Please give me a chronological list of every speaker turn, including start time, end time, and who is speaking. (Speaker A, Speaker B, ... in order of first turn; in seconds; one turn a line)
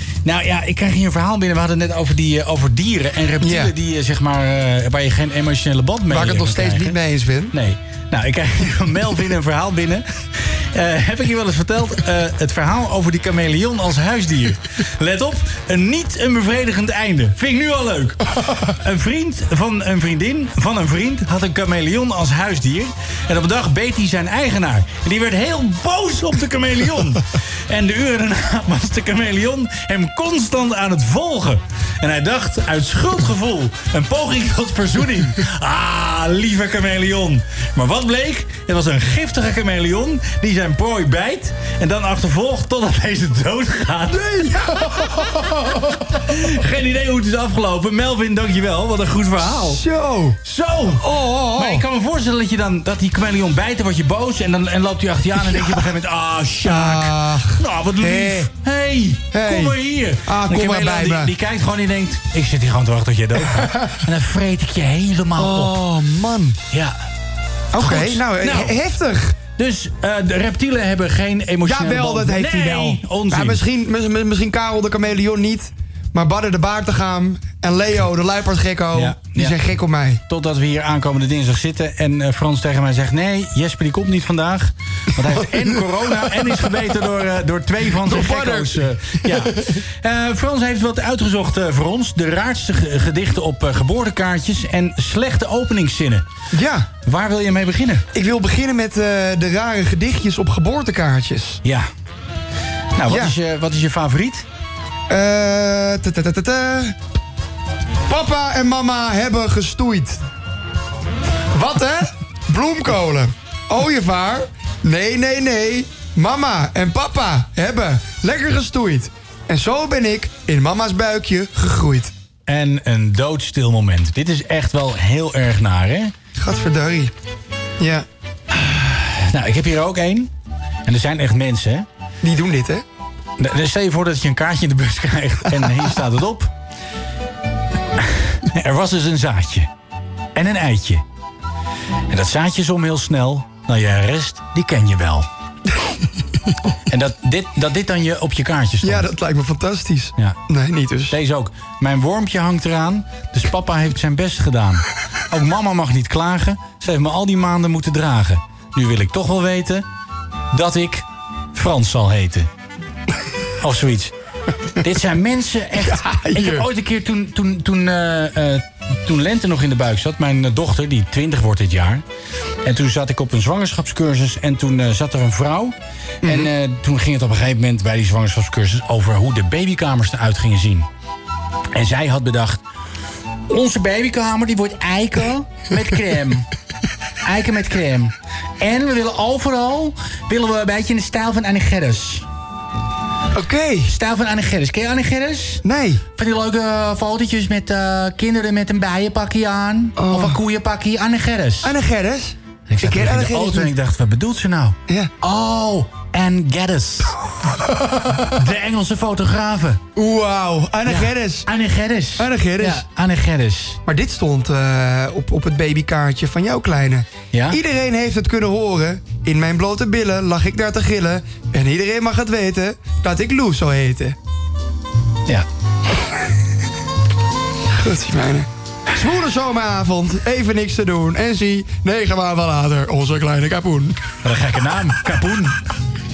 Speaker A: 0.2-7.0
Speaker B: 3.4-3.7
Speaker B: 6.1-7.5
Speaker A: 7.5-44.4
Speaker B: 44.1-46.0
Speaker A: 45.4-49.8
Speaker B: 49.6-50.4
Speaker A: 50.4-65.8
Speaker B: 50.9-51.8
Speaker B: 56.6-58.5
Speaker B: 59.3-61.3
Speaker B: 65.4-66.6
Speaker A: 66.7-67.0
Speaker B: 67.7-69.4
Speaker A: 67.8-68.8
Speaker A: 69.6-73.6
Speaker B: 71.6-80.2
Speaker A: 78.9-79.6
Speaker A: 80.3-96.3
Speaker B: 88.0-89.8
Speaker B: 96.5-96.9
Speaker A: 97.0-98.0
Speaker B: 98.1-101.6
Speaker A: 103.0-104.5
Speaker B: 103.1-103.3
Speaker B: 105.1-106.9
Speaker B: 108.1-110.2
Speaker B: 111.5-122.1
Speaker A: 122.5-126.1
Speaker B: 126.4-127.1
Speaker B: 127.8-128.1
Speaker A: 128.5-130.3
Speaker A: 130.8-131.9
Speaker B: 132.2-132.8
Speaker A: 133.4-136.5
Speaker A: 138.0-139.7
Speaker A: 140.3-141.0
Speaker A: 142.1-145.3
Speaker A: 146.9-149.1
Speaker B: 148.8-151.1
Speaker A: 151.1-159.8
Speaker A: 160.5-162.5
Speaker A: 163.6-164.1
Speaker A: 164.8-172.0
Speaker B: 165.8-166.7
Speaker A: 172.6-180.9
Speaker B: 176.2-176.5
Speaker A: 181.7-182.6
Speaker A: 183.5-186.5
Speaker A: 187.2-192.2
Speaker B: 193.3-193.9
Speaker A: 193.8-195.6
Speaker B: 195.6-196.0
Speaker A: 196.2-201.7
Speaker B: 200.0-200.4
Speaker B: 201.6-203.7
Speaker A: 202.7-207.2
Speaker A: 208.3-209.8
Speaker B: 209.9-211.5
Speaker A: 210.8-213.8
Speaker B: 212.2-212.8
Speaker B: 213.9-224.1
Speaker A: 217.3-217.6
Speaker B: 227.7-234.0
Speaker A: 234.2-235.6